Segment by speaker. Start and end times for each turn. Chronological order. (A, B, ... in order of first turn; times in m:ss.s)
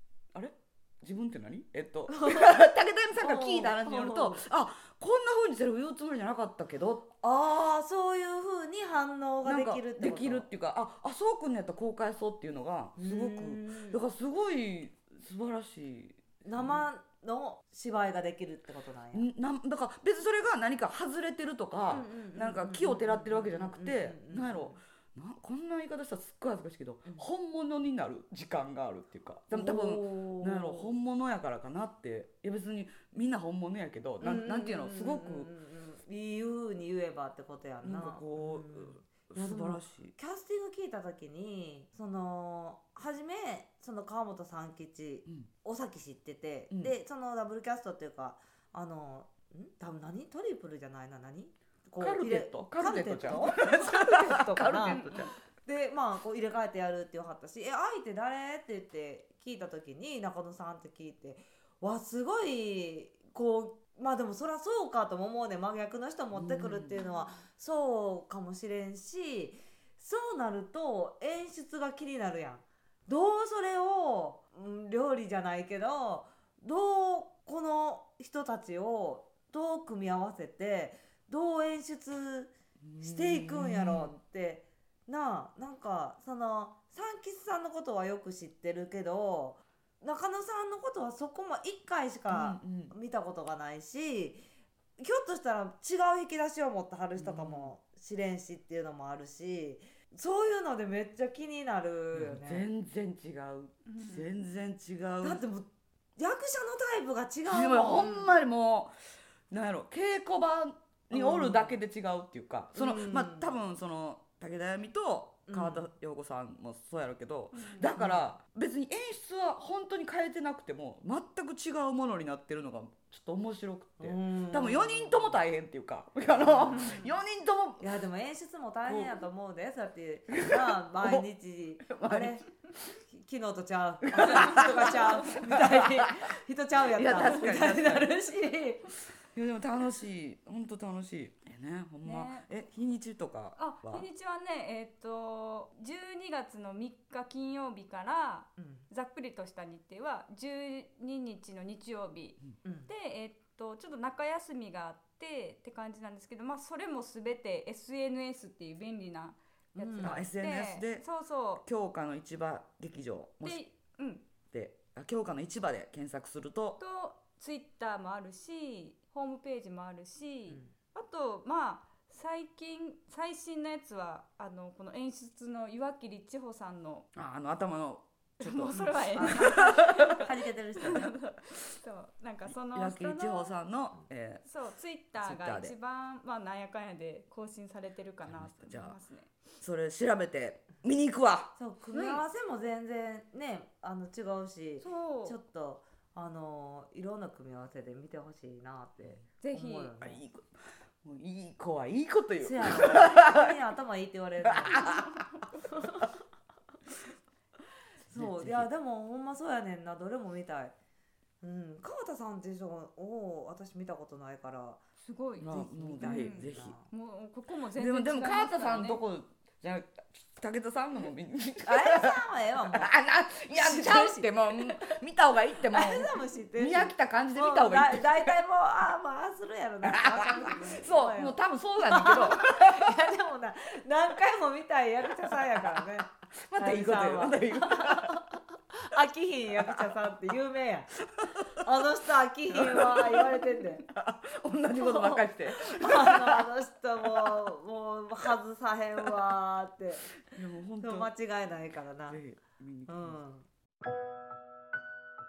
0:00.3-0:07.1 A
0:02.1-0:02.6 B
0:03.2-0:04.4 B
0:07.2-0:10.5 B
0:09.4-0:16.8 A
0:13.0-0:14.0 B
0:16.4-0:19.3 B
0:19.1-0:35.5 A
0:21.9-0:24.8 B
0:29.5-0:30.9 B
0:34.2-0:55.0 B
0:37.8-0:40.1 A
0:52.0-0:55.4 A
0:54.8-0:55.3 C
0:55.6-1:34.4 B
1:06.3-1:07.0 A
1:22.8-1:24.2 A
1:32.3-1:32.9 A
1:35.0-1:42.7 B
1:37.2-1:37.7 A
1:42.1-1:45.4 A
1:43.9-1:44.2 C
1:45.2-1:48.3 B
1:47.5-1:48.9 A
1:49.5-2:07.9 A
1:51.1-1:51.8 B
1:52.8-1:53.5 B
1:55.5-1:55.9 B
1:57.5-1:58.0 C
1:58.0-1:58.3 B
2:04.0-2:05.4 B
2:06.3-2:07.0 B
2:06.8-2:07.1 C
2:07.8-2:12.4 B
2:08.9-2:09.3 A
2:10.3-2:11.2 A
2:11.8-2:12.4 A
2:13.1-2:18.8 B
2:14.1-2:16.1 A
2:16.8-2:18.2 A
2:19.3-2:24.1 A
2:22.0-2:22.5 C
2:23.6-2:41.6 C
2:28.6-2:28.9 B
2:32.6-2:32.9 B
2:39.8-2:40.3 B
2:40.0-2:41.1 A
2:41.6-2:43.6 A
2:43.4-2:44.3 C
2:44.5-2:46.8 A
2:46.8-2:57.1 C
2:50.5-2:50.7 B
2:57.2-3:00.3 A
2:58.4-3:03.6 C
2:59.2-2:59.4 B
3:00.2-3:01.0 B
3:02.5-3:04.4 A
3:04.4-3:09.3 C
3:05.2-3:05.8 A
3:08.2-3:09.0 A
3:09.6-3:11.5 A
3:11.6-3:20.2 B
3:11.9-3:12.2 C
3:14.8-3:15.4 C
3:19.4-3:20.0 C
3:20.0-3:20.5 A
3:21.0-3:23.5 A
3:22.4-3:24.8 B
3:24.4-3:25.2 A
3:24.8-3:25.6 C
3:28.1-3:30.8 B
3:28.1-3:28.7 A
3:31.4-3:34.8 B
3:35.0-3:39.0 C
3:35.4-3:36.7 A
3:35.5-3:36.9 B
3:37.8-3:42.2 A
3:41.7-3:42.9 B
3:42.7-3:48.4 A
3:43.6-3:44.9 B
3:45.7-4:00.9 B
3:49.8-3:52.9 A
3:56.3-3:58.4 A
3:59.5-3:59.9 A
4:01.2-4:01.6 A
4:01.6-4:03.9 B
4:02.5-4:07.5 A
4:04.8-4:10.0 B
4:10.3-4:11.1 A
4:10.8-4:12.2 B
4:12.1-4:13.2 A
4:12.9-4:13.5 B